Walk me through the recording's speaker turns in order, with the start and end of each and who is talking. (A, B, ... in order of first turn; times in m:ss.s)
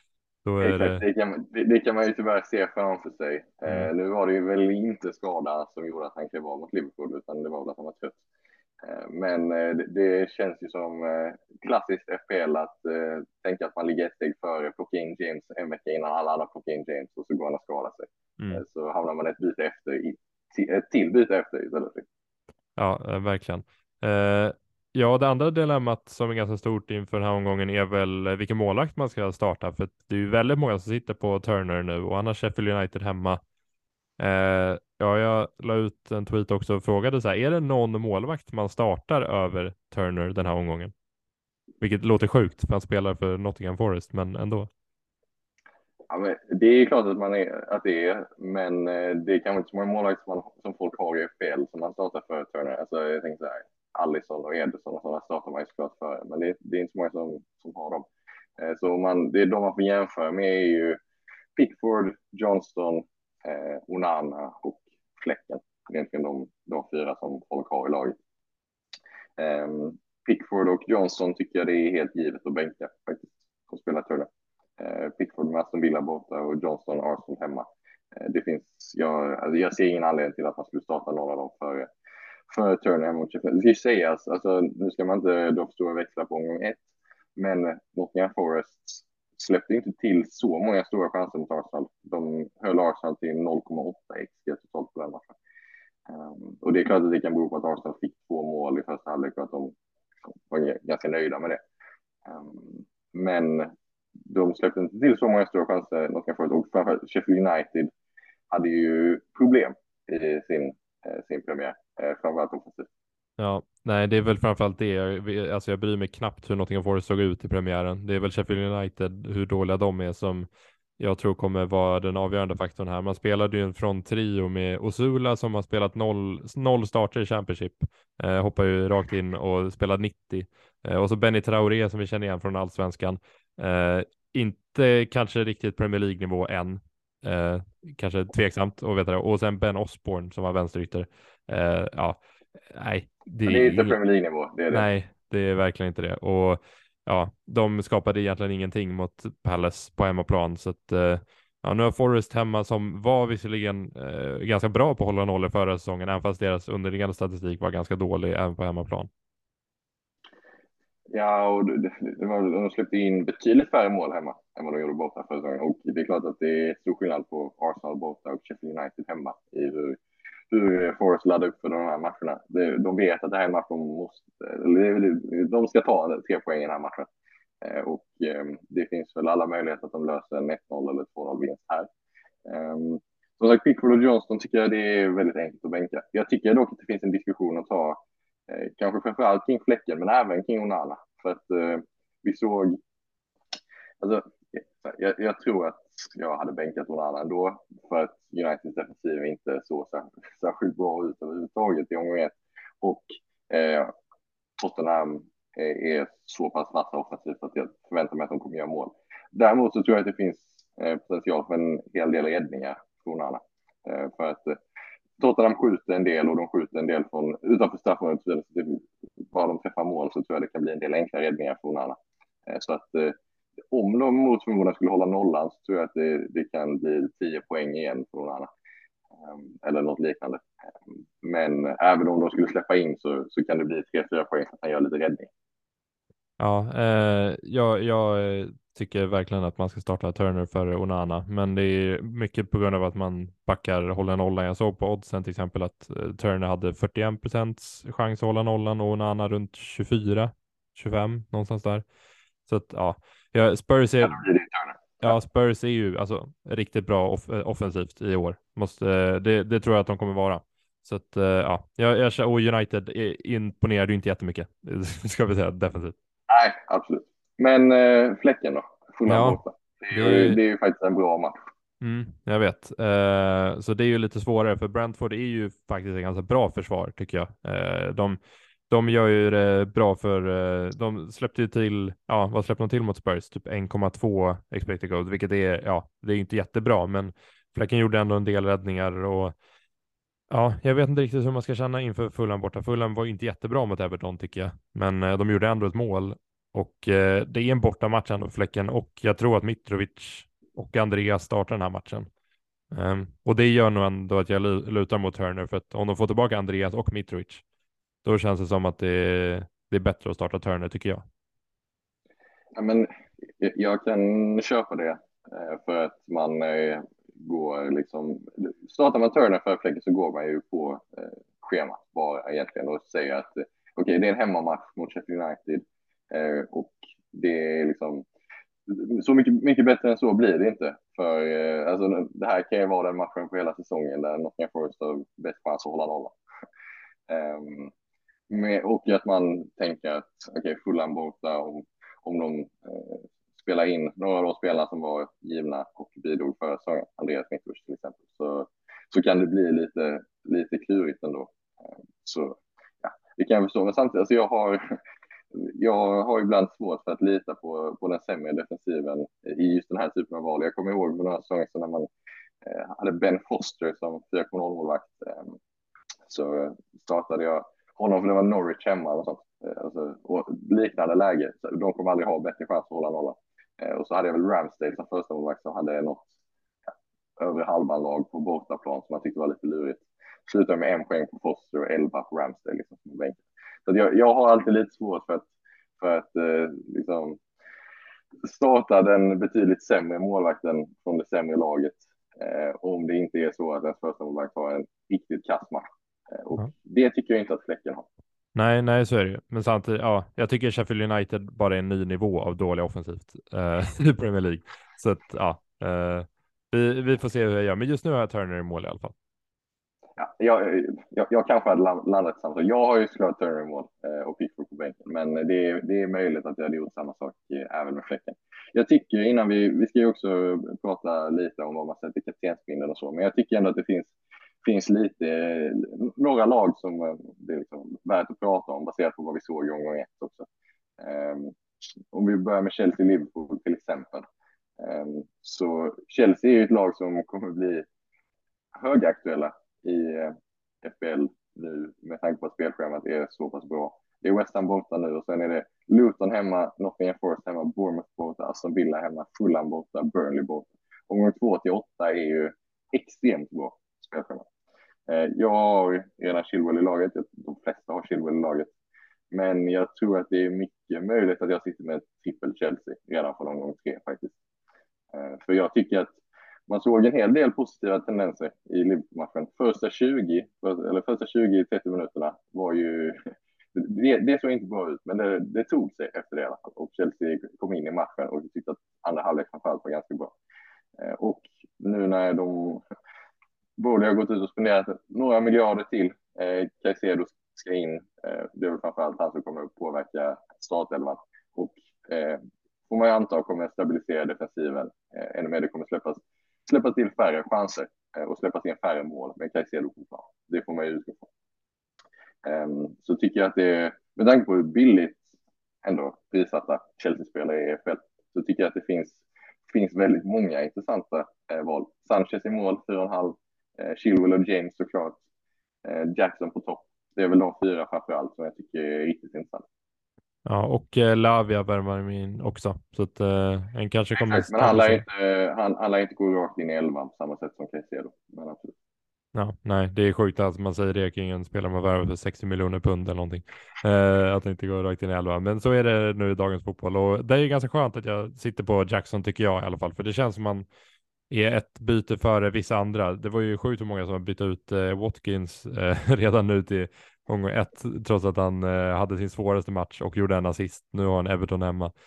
0:00.4-0:01.0 A
0:00.6-0:08.2 B
0:03.6-0:03.9 A
0:08.8-0:22.0 B
0:22.8-0:33.4 A
0:34.2-0:40.9 A
0:41.8-0:44.7 A
0:46.1-0:58.1 B
0:58.6-1:01.0 B
1:01.6-1:08.2 B
1:09.4-1:21.9 B
1:22.5-1:26.8 B
1:27.4-1:35.4 B
1:36.1-1:39.7 B
1:40.5-1:41.6 B
1:42.2-1:43.7 B
1:44.2-1:47.9 B
1:48.5-1:52.9 B
1:53.4-2:00.5 A
2:01.0-2:24.0 A
2:23.4-2:24.8 B
2:24.7-2:39.1 A
2:41.1-2:50.0 B
2:50.5-2:57.1 B
2:57.6-3:01.9 B
3:02.4-3:12.8 B
3:14.0-3:23.9 B
3:24.6-3:34.6 B
3:35.2-3:43.1 B
3:43.7-3:48.5 B
3:49.2-3:50.4 B
3:51.2-3:55.3 B
3:56.4-4:11.8 A
4:12.5-4:14.2 A
4:14.0-4:15.2 B
4:15.0-4:25.9 A
4:26.3-4:31.4 B
4:29.1-4:29.4 A
4:29.9-4:30.4 A
4:31.8-4:38.2 A
4:38.7-4:49.3 A
4:50.3-5:02.1 A
5:02.7-5:07.4 A
5:08.0-5:11.0 A
5:12.5-5:28.0 B
5:28.7-5:36.1 B
5:37.1-5:37.7 B
5:38.3-5:54.8 B
5:55.3-6:01.9 B
6:02.4-6:05.4 B
6:06.1-6:16.1 B
6:17.2-6:25.3 B
6:25.8-6:27.2 B
6:28.2-6:37.9 B
6:38.3-6:48.9 A
6:50.0-7:03.9 B
7:04.4-7:10.3 B
7:10.8-7:11.4 B
7:11.9-7:14.0 B
7:14.6-7:17.6 B
7:18.5-7:34.3 B
7:34.9-7:38.5 B
7:39.1-7:44.2 B
7:44.9-7:53.0 B
7:53.5-8:00.1 B
8:00.8-8:02.6 B
8:03.6-8:21.1 B
8:22.2-8:25.1 B
8:25.6-8:35.0 B
8:35.6-8:39.4 B
8:40.2-8:44.8 A
8:44.0-8:48.5 B
8:49.1-9:00.4 A
9:01.1-9:11.7 A